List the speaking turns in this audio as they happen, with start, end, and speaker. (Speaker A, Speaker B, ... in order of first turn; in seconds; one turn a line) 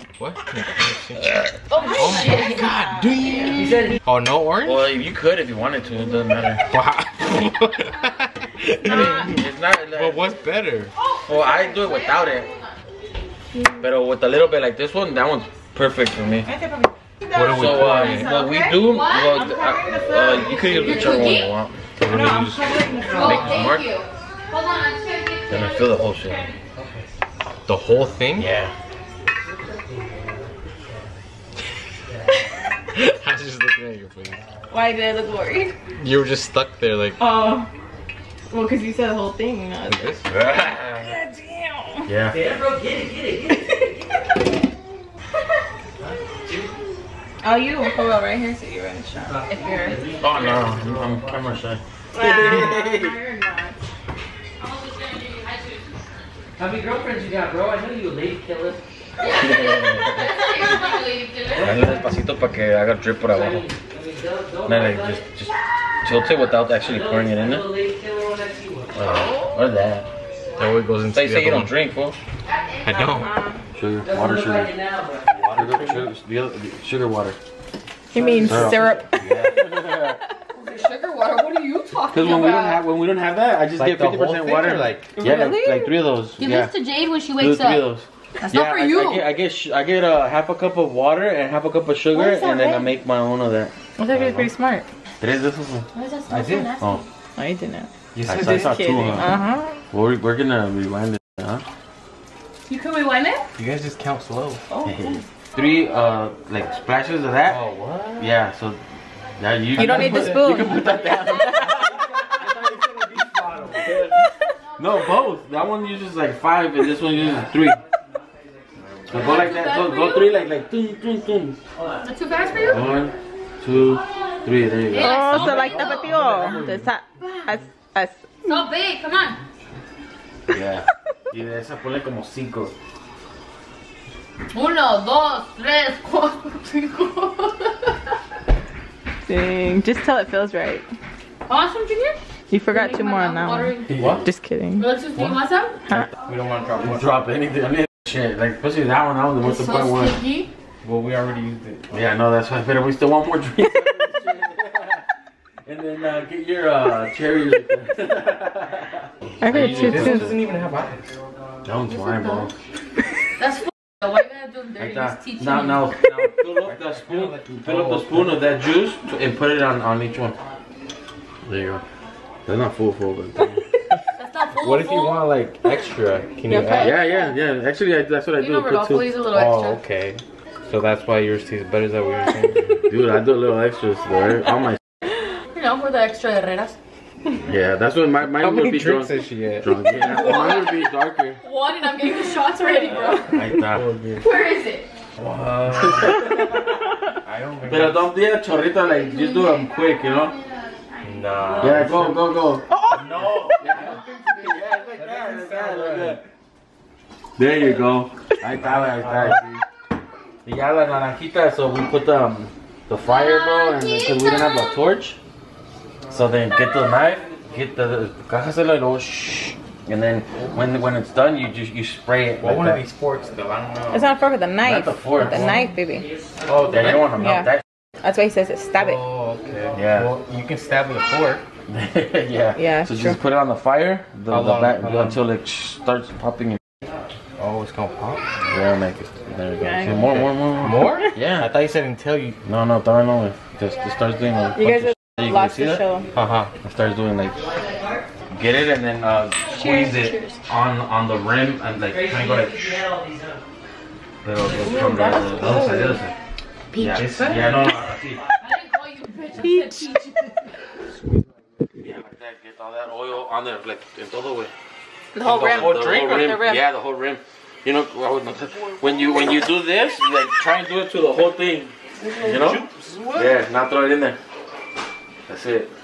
Speaker A: 0.2-4.9
Speaker B: 1.7-2.7
Speaker C: 1.8-3.6
Speaker D: 3.6-4.0
Speaker E: 4.6-6.6
Speaker A: 6.7-9.4
Speaker E: 8.8-10.3
Speaker A: 9.9-10.9
Speaker B: 11.0-12.8
Speaker E: 11.2-12.5
Speaker E: 13.8-16.5
Speaker C: 16.4-21.3
Speaker A: 17.3-18.3
Speaker E: 17.5-21.9
Speaker B: 18.8-19.5
Speaker B: 20.6-21.6
Speaker A: 22.0-23.1
Speaker C: 22.1-23.2
Speaker D: 22.4-23.7
Speaker B: 23.1-26.6
Speaker E: 23.2-23.9
Speaker E: 25.5-26.5
Speaker D: 26.8-27.1
Speaker A: 27.7-28.5
Speaker E: 28.4-28.7
Speaker D: 29.6-30.5
Speaker A: 32.9-34.4
Speaker C: 34.7-35.8
Speaker A: 36.0-37.2
Speaker C: 37.2-37.7
Speaker C: 38.5-40.2
Speaker A: 39.9-40.2
Speaker E: 40.3-41.2
Speaker C: 41.0-42.1
Speaker E: 42.1-42.4
Speaker D: 42.3-44.2
Speaker C: 43.5-43.8
Speaker D: 46.0-46.7
Speaker C: 47.4-50.0
Speaker D: 49.2-51.5
Speaker E: 50.2-53.2
Speaker C: 52.1-53.8
Speaker B: 54.6-56.1
Speaker D: 56.6-58.8
Speaker B: 59.2-62.0
Speaker E: 59.4-60.3
Speaker D: 61.5-62.2
Speaker E: 61.6-63.6
Speaker D: 63.3-65.3
Speaker E: 64.7-67.7
Speaker D: 66.1-69.1
Speaker E: 69.0-70.1
Speaker A: 70.6-71.8
Speaker E: 71.1-72.2
Speaker B: 72.4-73.4
Speaker A: 72.8-73.3
Speaker C: 73.1-73.6
Speaker E: 73.7-74.7
Speaker D: 74.0-75.3
Speaker A: 75.3-76.1
Speaker E: 75.5-77.4
Speaker C: 78.1-80.4
Speaker D: 78.2-79.0
Speaker E: 78.4-80.2
Speaker B: 80.5-82.8
Speaker E: 82.1-86.8
Speaker A: 83.8-85.1
Speaker C: 85.2-86.0
Speaker B: 86.4-87.9
Speaker E: 87.3-93.7
Speaker B: 88.4-89.3
Speaker B: 92.1-92.9
Speaker C: 94.0-94.9
Speaker A: 94.1-94.5
Speaker E: 95.2-95.9
Speaker B: 95.9-97.0
Speaker A: 96.3-96.7
Speaker E: 96.8-97.0
Speaker C: 97.4-99.8
Speaker A: 98.1-99.2
Speaker E: 98.3-99.3
Speaker E: 99.9-101.6
Speaker B: 102.7-103.5
Speaker A: 103.6-104.6
Speaker E: 104.8-107.6
Speaker A: 107.5-108.3
Speaker E: 108.2-108.8
Speaker E: 109.4-112.3
Speaker C: 109.8-110.8
Speaker A: 109.8-110.4
Speaker B: 110.7-111.8
Speaker D: 111.9-114.0
Speaker E: 113.8-114.2
Speaker E: 114.8-117.8
Speaker D: 117.0-119.3
Speaker A: 118.8-119.6
Speaker E: 119.1-121.6
Speaker B: 119.1-120.4
Speaker D: 121.7-123.1
Speaker B: 122.0-122.9
Speaker E: 122.5-126.7
Speaker D: 123.8-124.3
Speaker B: 124.9-126.2
Speaker C: 125.0-128.6
Speaker B: 128.4-129.4
Speaker E: 130.5-132.7
Speaker B: 134.5-137.9
Speaker C: 139.2-140.9
Speaker B: 141.5-142.2
Speaker C: 142.5-144.9
Speaker B: 142.7-143.9
Speaker E: 143.9-144.2
Speaker B: 144.8-145.8
Speaker A: 146.2-147.1
Speaker E: 146.8-150.2
Speaker B: 149.4-150.5
Speaker A: 150.8-151.8
Speaker E: 151.9-155.0
Speaker E: 155.6-160.4
Speaker C: 159.4-160.3
Speaker A: 159.4-161.1
Speaker D: 160.5-160.8
Speaker E: 161.6-162.5
Speaker B: 161.9-162.5
Speaker B: 163.4-165.9
Speaker E: 164.8-170.4
Speaker A: 166.6-168.4
Speaker E: 171.4-171.8
Speaker E: 172.5-173.7
Speaker B: 174.2-175.3
Speaker A: 174.5-176.9
Speaker C: 176.5-177.3
Speaker E: 176.8-179.2
Speaker B: 178.4-179.8
Speaker A: 179.3-182.8
Speaker E: 182.8-184.8
Speaker B: 185.5-186.8
Speaker E: 187.4-191.4
Speaker A: 188.4-189.7
Speaker B: 190.0-190.9
Speaker B: 191.4-193.4
Speaker E: 193.3-193.9
Speaker A: 193.3-194.2
Speaker B: 194.2-194.9
Speaker A: 195.2-196.2
Speaker E: 195.7-196.9
Speaker A: 197.2-198.0
Speaker E: 197.7-200.4
Speaker B: 199.3-199.6
Speaker A: 201.0-202.2
Speaker D: 201.5-202.1
Speaker E: 201.6-202.7
Speaker A: 202.9-204.0
Speaker E: 203.6-206.2
Speaker A: 204.9-206.2
Speaker E: 207.4-209.6
Speaker A: 208.6-209.4
Speaker E: 210.4-215.2
Speaker B: 213.0-214.8
Speaker E: 216.1-222.8
Speaker D: 216.1-217.4
Speaker A: 220.4-220.7
Speaker A: 222.4-224.0
Speaker C: 223.9-226.1
Speaker E: 224.6-225.4
Speaker A: 225.3-225.6
Speaker D: 225.5-226.9
Speaker A: 226.5-227.1
Speaker E: 226.7-227.6
Speaker C: 227.2-227.5
Speaker C: 228.0-229.0
Speaker A: 228.8-231.4
Speaker E: 229.8-230.2
Speaker E: 231.7-236.6
Speaker C: 232.6-233.2
Speaker A: 234.3-235.2
Speaker A: 237.4-238.3
Speaker E: 238.5-241.5
Speaker C: 239.6-240.0
Speaker A: 239.6-242.4
Speaker E: 242.4-245.8
Speaker C: 244.6-246.1
Speaker A: 246.1-246.5
Speaker E: 246.6-247.4
Speaker D: 247.3-248.1
Speaker E: 248.3-252.9
Speaker B: 249.5-250.4
Speaker D: 251.9-253.4
Speaker E: 254.2-256.1
Speaker D: 254.4-255.7
Speaker C: 254.6-256.0
Speaker A: 256.8-257.7
Speaker E: 256.8-258.2
Speaker D: 257.7-258.2
Speaker B: 258.4-260.6
Speaker C: 259.4-260.0
Speaker E: 261.8-264.5
Speaker B: 265.1-266.6
Speaker E: 265.2-274.2
Speaker A: 265.8-266.2
Speaker A: 272.1-273.3
Speaker E: 275.3-275.7